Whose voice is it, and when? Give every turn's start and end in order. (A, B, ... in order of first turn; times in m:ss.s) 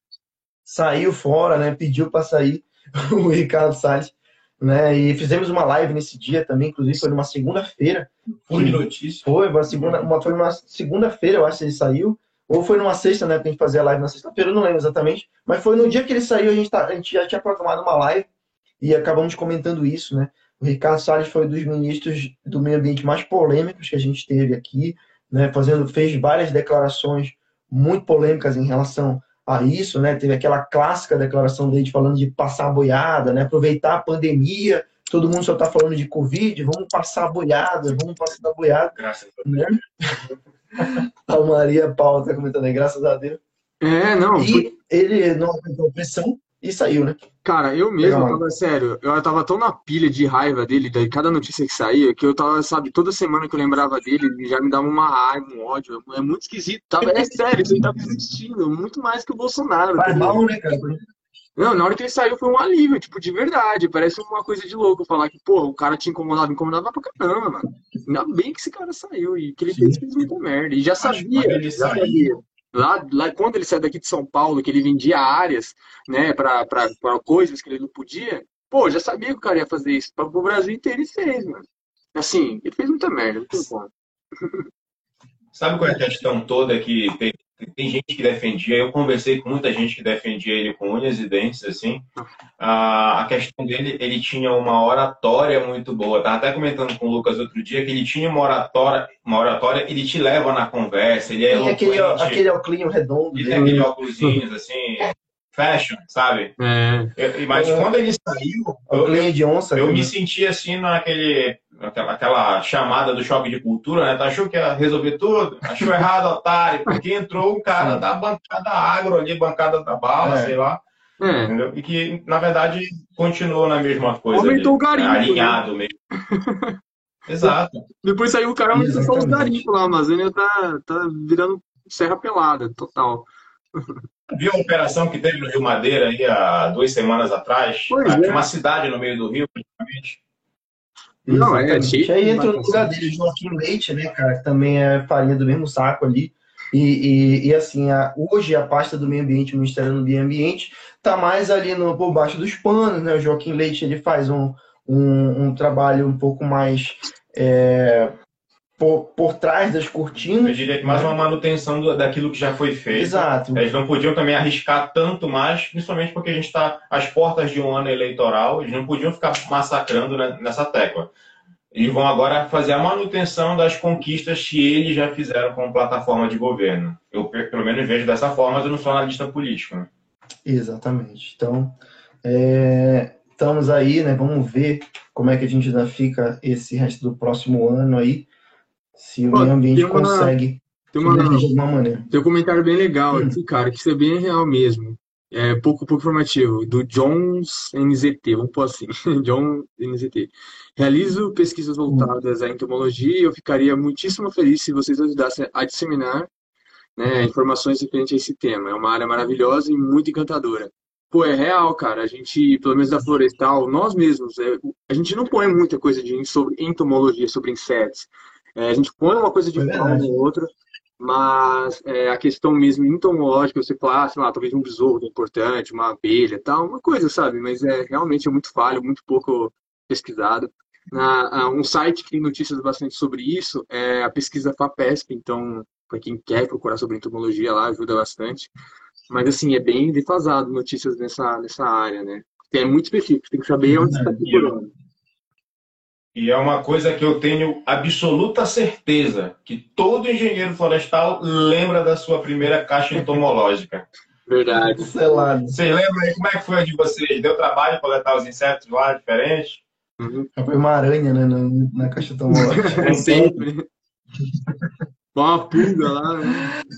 0:00.6-0:18.3 A
0:08.5-0:10.0 B
0:18.8-0:40.2 A
0:38.9-0:39.4 B
0:40.8-0:43.4 A
0:43.8-0:44.7 C
0:44.4-0:47.2 A
0:47.4-1:00.4 C
0:48.0-0:48.4 A
0:57.0-0:58.2 A
1:00.0-1:01.0 A
1:01.6-1:24.7 C
1:09.7-1:10.0 A
1:11.0-1:12.3 B
1:25.5-1:32.0 B
1:32.6-1:42.4 B
1:41.5-1:43.9 A
1:43.3-1:46.5 B
1:43.5-1:44.4 C
1:46.6-1:47.1 C
1:47.2-2:00.8 B
1:47.5-1:47.9 A
1:48.9-1:50.1 A
1:57.7-1:58.0 A
2:00.2-2:00.5 A
2:01.2-2:01.5 C
2:01.5-2:05.9 B
2:04.3-2:05.6 C
2:06.2-2:06.8 C
2:07.3-2:07.8 B
2:08.0-2:14.0 C
2:08.7-2:09.6 A
2:14.3-2:20.2 B
2:17.9-2:18.4 C
2:21.2-2:38.1 A
2:21.3-2:22.9 C
2:38.8-2:41.1 A
2:40.4-2:51.1 B
2:42.9-2:43.7 A
2:51.7-2:59.9 B
3:00.4-3:08.3 A
3:09.0-3:12.1 A
3:09.3-3:10.3 C
3:10.9-3:11.5 C
3:12.1-3:26.3 C
3:27.0-3:40.5 C
3:39.6-3:40.2 A
3:41.0-3:58.5 C
3:59.1-4:04.7 C
4:03.7-4:04.5 A
4:06.1-4:13.8 B
4:14.3-4:14.9 C
4:14.8-4:15.6 A
4:15.5-4:19.6 B
4:20.0-4:20.3 C
4:20.4-4:23.4 A
4:22.3-4:23.6 C
4:22.8-4:23.1 B
4:25.1-4:26.6 C